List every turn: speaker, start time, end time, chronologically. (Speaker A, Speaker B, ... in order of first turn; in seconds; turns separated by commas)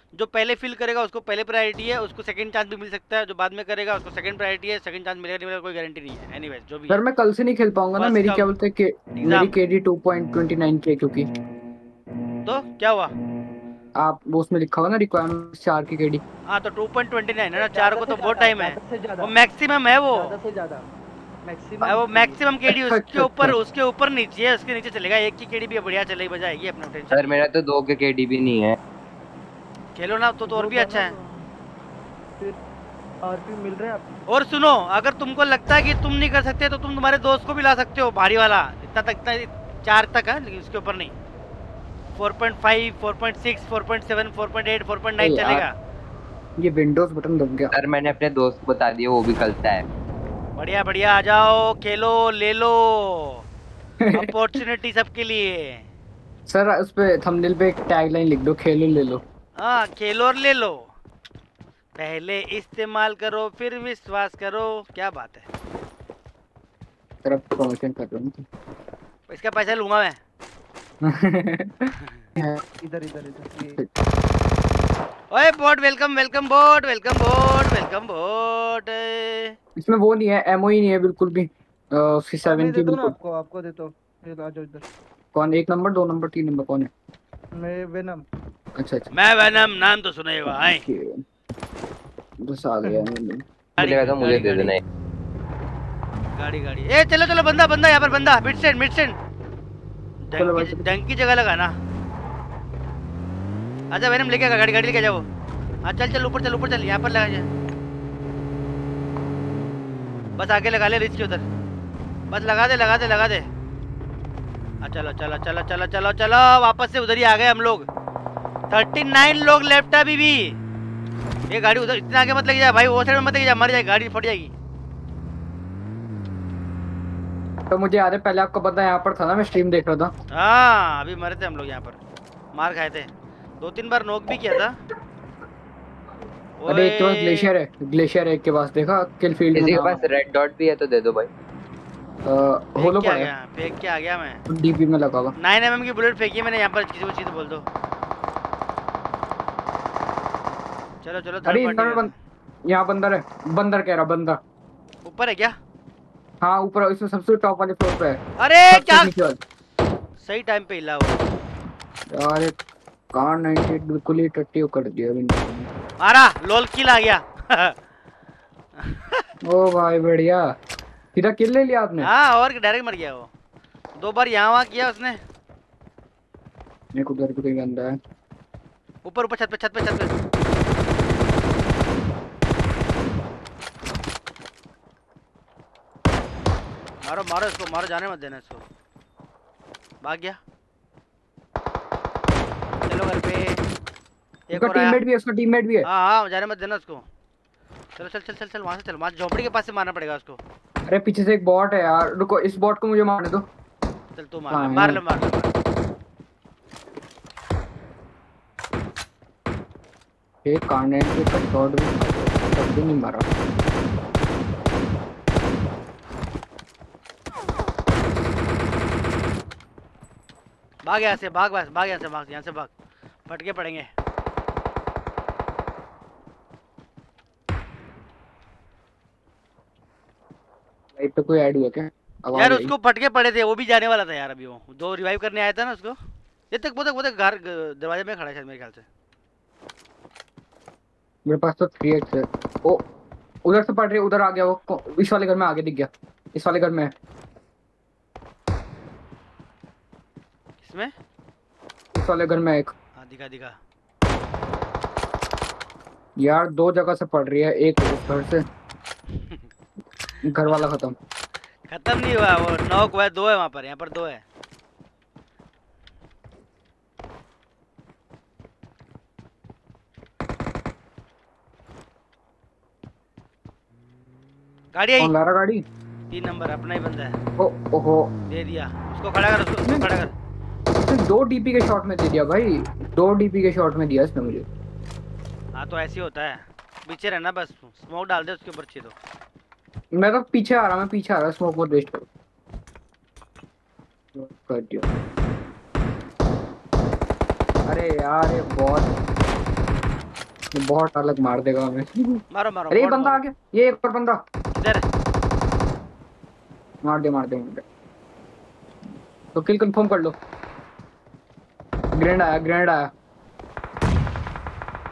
Speaker A: 0.1-7.0, Speaker B: 6.9-11.3, Speaker A: 8.0-8.5, Speaker A: 9.2-9.5, Speaker A: 12.4-13.1, Speaker B: 14.0-16.2, Speaker A: 16.5-20.4, Speaker C: 17.6-19.3, Speaker C: 20.1-20.8, Speaker C: 21.4-22.4, Speaker A: 21.8-27.4, Speaker B: 22.7-23.6, Speaker D: 27.1-28.8, Speaker A: 29.9-31.1, Speaker C: 30.5-31.5, Speaker C: 33.2-34.0, Speaker A: 34.3-41.1, Speaker A: 42.1-45.7, Speaker B: 45.2-45.6, Speaker B: 46.6-47.7, Speaker D: 47.7-49.9, Speaker A: 50.5-53.4, Speaker B: 54.0-54.3, Speaker A: 54.1-55.9, Speaker B: 56.5-59.2, Speaker A: 59.6-60.9, Speaker A: 62.0-65.5, Speaker B: 67.2-68.4, Speaker A: 69.3-70.2, Speaker B: 71.0-72.6, Speaker C: 72.8-73.8, Speaker A: 75.3-79.6, Speaker B: 79.8-83.2, Speaker C: 82.4-84.8, Speaker B: 85.3-86.9, Speaker C: 87.6-88.2, Speaker B: 88.8-89.1, Speaker A: 89.1-90.8, Speaker B: 90.4-91.2, Speaker B: 92.4-93.4, Speaker A: 93.8-94.8, Speaker D: 93.8-94.8, Speaker A: 96.3-99.2, Speaker A: 100.3-101.7, Speaker B: 100.3-100.9, Speaker A: 103.9-105.2, Speaker A: 105.8-107.5, Speaker A: 110.4-111.4, Speaker A: 112.3-113.5, Speaker A: 114.8-117.8, Speaker A: 118.7-120.5, Speaker A: 121.5-124.5, Speaker B: 127.7-130.1, Speaker A: 130.3-132.0, Speaker A: 132.5-134.8, Speaker A: 136.6-137.5, Speaker B: 136.7-140.1, Speaker D: 139.5-141.3, Speaker B: 142.2-143.3, Speaker A: 142.8-144.4, Speaker B: 144.5-145.3, Speaker A: 145.4-147.7, Speaker A: 151.0-152.1, Speaker B: 151.4-152.1, Speaker B: 152.7-154.4, Speaker A: 155.0-155.5, Speaker B: 156.4-158.2, Speaker A: 158.4-159.1, Speaker B: 158.7-159.4, Speaker A: 160.2-161.2, Speaker B: 162.1-162.6, Speaker B: 163.1-165.7, Speaker A: 166.0-167.7, Speaker A: 168.9-169.2, Speaker B: 169.4-170.4, Speaker B: 171.1-172.1, Speaker A: 172.0-173.3, Speaker A: 174.0-175.2, Speaker B: 176.9-177.9, Speaker A: 179.0-180.1, Speaker A: 187.0-188.6, Speaker A: 190.0-190.4, Speaker A: 192.9-193.6, Speaker A: 194.5-195.0, Speaker B: 194.5-195.9, Speaker A: 195.8-197.0, Speaker A: 198.0-200.4, Speaker B: 200.9-203.4, Speaker A: 204.2-205.5, Speaker B: 204.5-205.0, Speaker B: 210.4-213.3, Speaker A: 220.8-222.7, Speaker A: 223.3-223.9, Speaker B: 231.0-232.7, Speaker A: 232.3-236.0, Speaker A: 236.5-238.8, Speaker B: 241.2-242.8, Speaker B: 243.4-246.9, Speaker A: 250.6-250.9, Speaker B: 251.9-252.7, Speaker A: 253.0-253.6, Speaker B: 256.2-258.4, Speaker B: 260.2-260.9, Speaker A: 261.7-264.2, Speaker A: 274.7-275.1, Speaker B: 275.0-275.6, Speaker A: 276.1-277.1, Speaker B: 277.4-278.1, Speaker A: 278.3-280.1, Speaker B: 279.6-279.9, Speaker B: 280.7-284.5, Speaker A: 285.6-288.9, Speaker B: 289.9-292.1, Speaker B: 294.1-294.9, Speaker B: 297.7-299.0, Speaker B: 300.5-304.2, Speaker A: 302.3-303.2, Speaker A: 304.6-304.8, Speaker B: 306.8-307.6, Speaker B: 309.3-310.2, Speaker B: 311.9-312.9